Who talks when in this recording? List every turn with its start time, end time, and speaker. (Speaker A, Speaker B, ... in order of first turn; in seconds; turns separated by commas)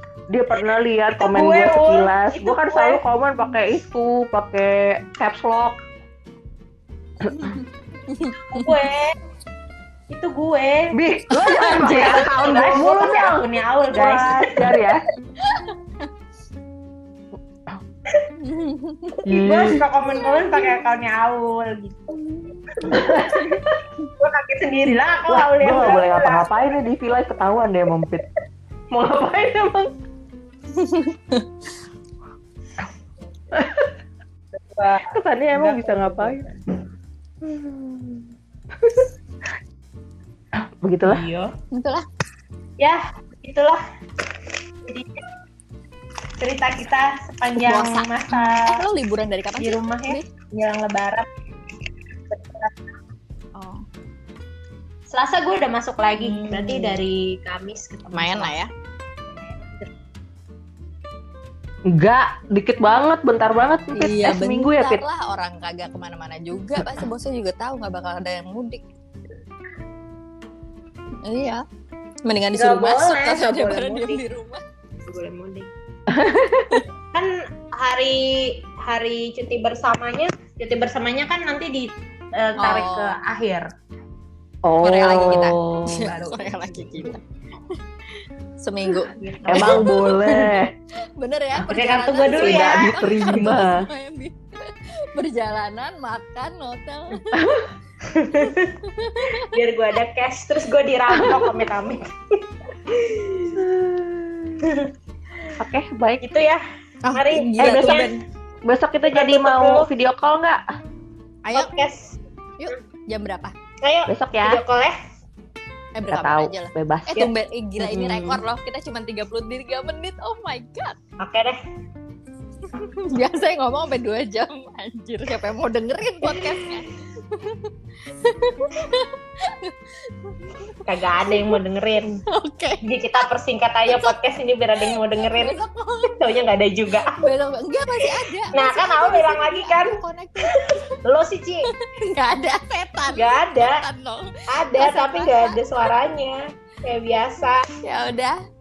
Speaker A: 0.3-5.8, Speaker B: 1.2-3.0, Speaker C: 7.2-8.7, Speaker A: 7.3-7.5, Speaker B: 8.3-9.2, Speaker B: 10.1-10.9, Speaker A: 10.9-15.0, Speaker C: 11.3-11.9, Speaker B: 11.6-14.7, Speaker C: 15.3-16.1, Speaker C: 18.4-19.2, Speaker B: 19.3-22.2, Speaker A: 19.3-19.8, Speaker C: 20.1-20.7, Speaker B: 22.7-23.6, Speaker A: 22.9-23.8, Speaker C: 23.1-23.6, Speaker B: 24.2-26.5, Speaker A: 25.3-28.2, Speaker A: 28.9-29.9, Speaker C: 30.7-31.5, Speaker A: 33.5-33.9, Speaker B: 34.5-36.6, Speaker A: 35.1-36.4, Speaker A: 37.5-38.2, Speaker A: 40.5-41.2, Speaker B: 41.0-41.5, Speaker C: 41.7-42.0, Speaker B: 42.8-43.8, Speaker B: 44.9-45.3, Speaker B: 46.4-48.8, Speaker C: 47.6-50.3, Speaker B: 49.6-51.3, Speaker B: 52.3-52.8, Speaker C: 53.6-53.8, Speaker B: 55.1-58.6, Speaker C: 56.2-57.0, Speaker C: 58.1-58.7, Speaker B: 59.6-59.9, Speaker A: 61.9-65.0, Speaker C: 63.9-68.9, Speaker A: 66.8-67.0, Speaker C: 71.2-71.6, Speaker C: 72.2-74.6, Speaker B: 72.5-74.2, Speaker B: 75.0-75.7, Speaker A: 76.1-76.8, Speaker B: 77.1-83.7, Speaker C: 82.6-83.2, Speaker A: 84.6-86.1, Speaker C: 84.8-87.2, Speaker B: 86.0-87.2, Speaker C: 88.6-90.3, Speaker B: 89.1-90.6, Speaker A: 89.5-90.7, Speaker C: 91.2-97.7, Speaker B: 91.6-93.5, Speaker A: 92.3-93.9, Speaker A: 97.3-97.7, Speaker B: 98.0-98.8, Speaker C: 98.4-99.6, Speaker B: 99.3-103.6, Speaker A: 101.1-101.5, Speaker A: 103.5-104.7, Speaker B: 104.6-104.9, Speaker A: 105.6-106.2, Speaker B: 106.2-106.6, Speaker C: 107.0-108.2, Speaker B: 107.1-108.1, Speaker A: 107.6-108.0, Speaker A: 108.7-110.7, Speaker B: 109.1-109.9, Speaker C: 111.5-111.7, Speaker B: 111.5-112.2, Speaker C: 112.6-113.5, Speaker B: 113.8-115.0, Speaker A: 114.1-114.6, Speaker C: 116.0-121.0, Speaker A: 116.1-117.2, Speaker B: 117.2-118.4, Speaker B: 121.2-121.6, Speaker C: 122.6-131.6, Speaker B: 126.3-126.5, Speaker B: 130.9-132.2, Speaker C: 132.3-132.8, Speaker B: 132.8-137.3, Speaker C: 133.9-134.2, Speaker C: 134.8-136.2, Speaker C: 137.1-140.9, Speaker B: 138.0-141.7, Speaker C: 141.7-145.6, Speaker B: 143.2-143.8, Speaker B: 144.5-147.7, Speaker C: 147.8-148.4